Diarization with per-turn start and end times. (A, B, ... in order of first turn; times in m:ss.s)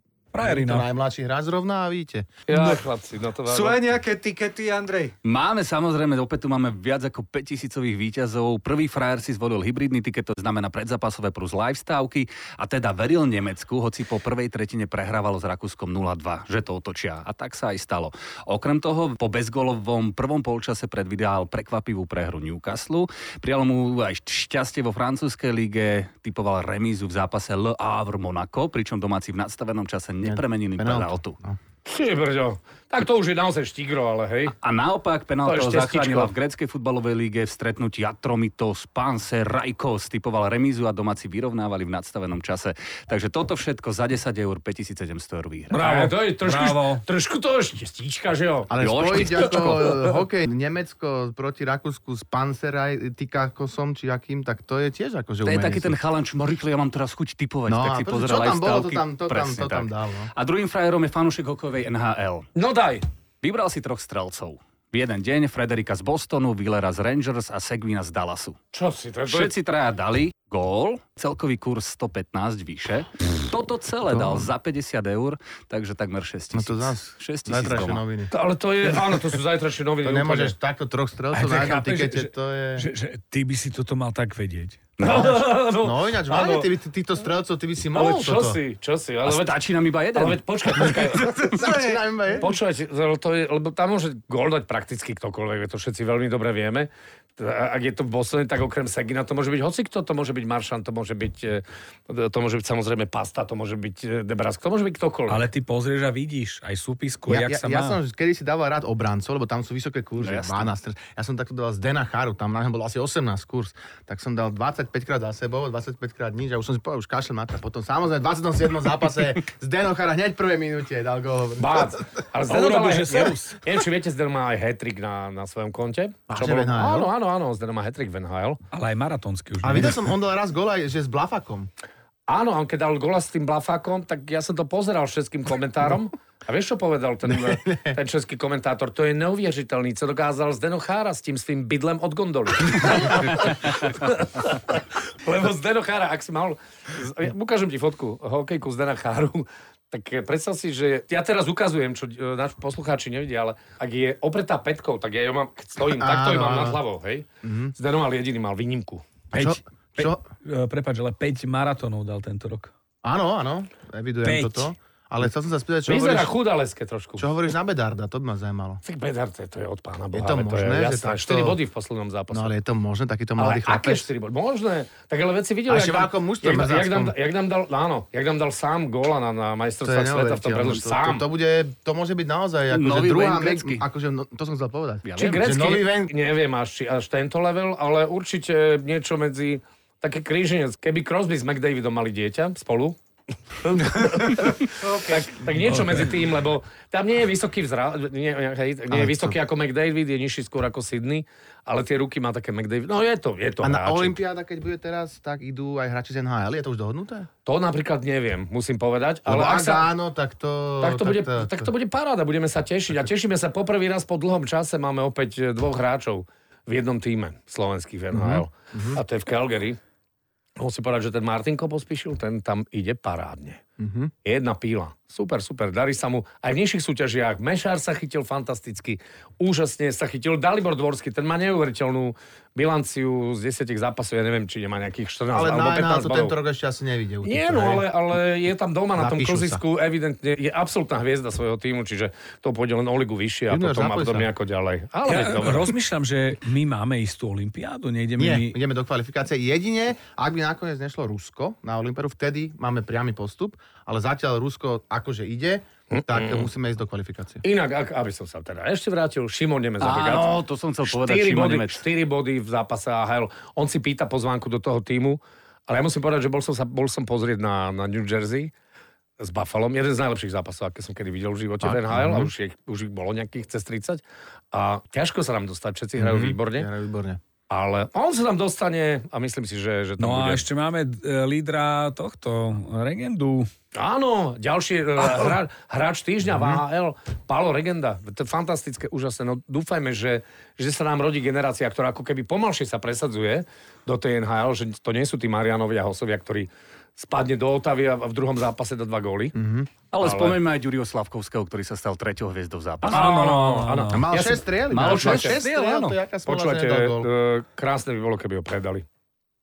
0:00.3-0:00.9 A
0:00.4-0:02.3 B
0:02.5-0:03.8 C
0:03.5-0:05.2 D
0:05.2-0:31.4 E
0:30.2-0:31.6 B
0:31.9-0:34.6 C
0:34.6-0:45.8 E
0:35.4-0:36.3 C
0:45.7-0:47.0 A
0:45.7-0:48.7 C
0:48.7-0:56.0 B
0:48.8-0:50.2 E
0:55.4-1:02.5 E
0:57.7-1:00.3 B
1:02.6-1:03.0 C
1:03.4-1:08.6 E
1:08.7-1:09.5 C
1:09.3-1:18.0 E
1:14.1-1:14.5 B
1:16.5-1:18.3 B
1:18.3-1:20.6 C
1:20.0-1:22.9 B
1:21.3-1:24.9 A
1:25.0-1:25.4 E
1:25.0-1:26.7 C
1:25.8-1:28.6 B
1:27.9-1:31.4 C
1:29.2-1:31.0 E
1:30.8-1:32.6 B
1:31.6-1:32.0 D
1:32.4-1:45.4 C
1:45.3-1:48.0 A
1:47.3-2:02.2 B
1:50.2-1:50.7 E
2:01.6-2:08.6 C
2:02.5-2:03.6 A
2:06.3-2:07.1 B
2:08.7-2:10.0 A
2:09.6-2:11.7 B
2:12.3-2:39.0 C
2:17.3-2:18.0 B
2:35.9-2:36.8 B
2:37.4-2:37.8 B
2:39.3-2:40.2 B
2:39.3-2:42.7 A
2:43.0-2:46.3 B
2:44.2-2:44.7 A
2:45.9-2:47.3 C
2:47.2-2:48.8 B
2:48.8-2:52.5 C
2:50.1-2:51.6 B
2:52.3-2:54.1 B
2:53.4-3:01.2 C
2:55.7-2:57.1 B
2:59.8-3:06.1 B
3:02.7-3:03.8 E
3:05.0-3:05.6 E
3:05.2-3:13.0 C
3:13.6-3:24.2 C
3:14.7-3:15.4 D
3:15.6-3:16.2 A
3:18.9-3:19.4 B
3:23.6-3:27.3 B
3:27.5-3:29.9 C
3:29.3-3:31.7 B
3:30.8-3:39.8 C
3:38.1-3:39.0 B
3:40.6-3:43.6 C
3:43.8-3:44.1 B
3:44.2-3:56.4 C
3:55.3-3:57.9 B
3:57.2-4:05.7 C
3:59.0-3:59.6 B
4:03.5-4:04.3 B
4:05.1-4:08.6 A
4:08.2-4:17.4 B
4:15.9-4:16.5 C
4:17.4-4:28.5 C
4:19.8-4:21.8 E
4:29.2-4:36.7 C
4:31.6-4:32.3 B
4:36.0-4:37.2 B
4:37.5-4:40.4 C
4:40.0-4:43.5 A
4:43.8-4:59.4 C
4:46.3-4:46.6 B
4:59.4-4:59.7 B
4:59.9-5:03.2 E
5:00.0-5:00.4 C
5:02.8-5:05.4 C
5:02.9-5:04.1 A
5:03.9-5:07.1 B
5:04.7-5:06.0 E
5:06.3-5:08.8 C